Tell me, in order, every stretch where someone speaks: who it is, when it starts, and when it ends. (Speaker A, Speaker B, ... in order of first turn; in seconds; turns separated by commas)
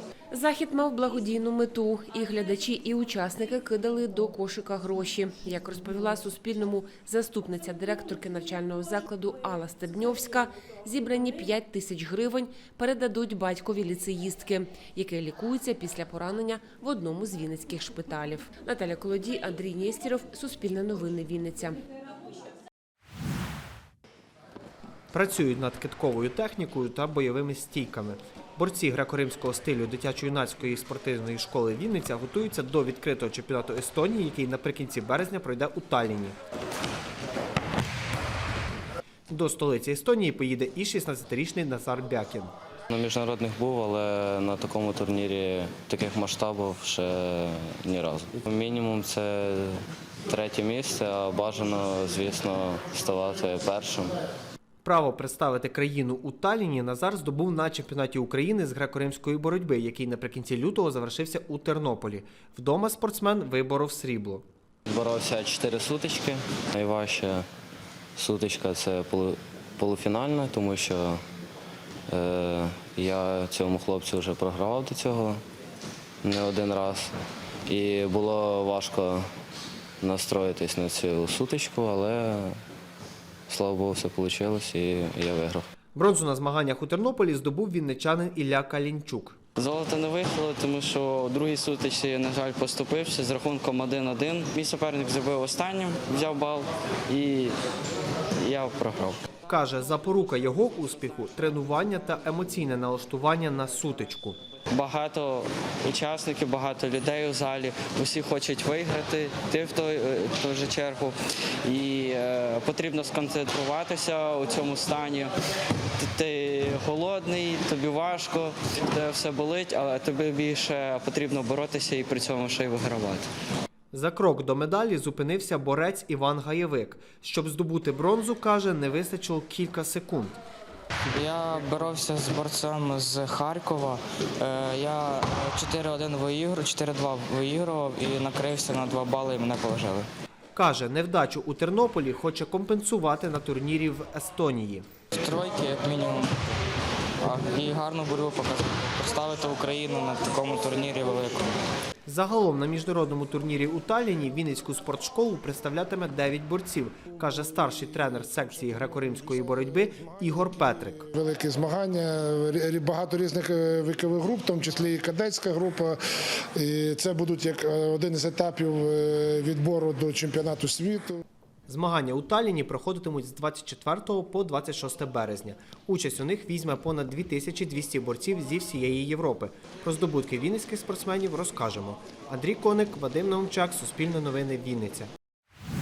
Speaker A: 0.3-21.8, Speaker B: 25.1-36.4, Speaker B: 39.3-42.5, Speaker C: 42.9-54.1, Speaker B: 54.8-64.5, Speaker C: 64.9-67.5, Speaker C: 68.2-71.2, Speaker C: 72.1-75.4, Speaker C: 76.2-77.1, Speaker C: 77.7-79.3, Speaker C: 80.0-82.6, Speaker C: 83.5-85.7, Speaker B: 86.0-89.4, Speaker C: 89.6-97.5, Speaker C: 98.4-99.2, Speaker B: 99.5-104.4, Speaker C: 104.7-115.3, Speaker C: 116.0-123.3, Speaker B: 123.9-130.4, Speaker D: 131.1-140.1, Speaker B: 140.6-144.9, Speaker D: 145.2-146.3, Speaker D: 147.2-151.5, Speaker B: 152.1-161.1, Speaker E: 161.1-166.0, Speaker E: 166.6-171.2, Speaker B: 171.7-185.1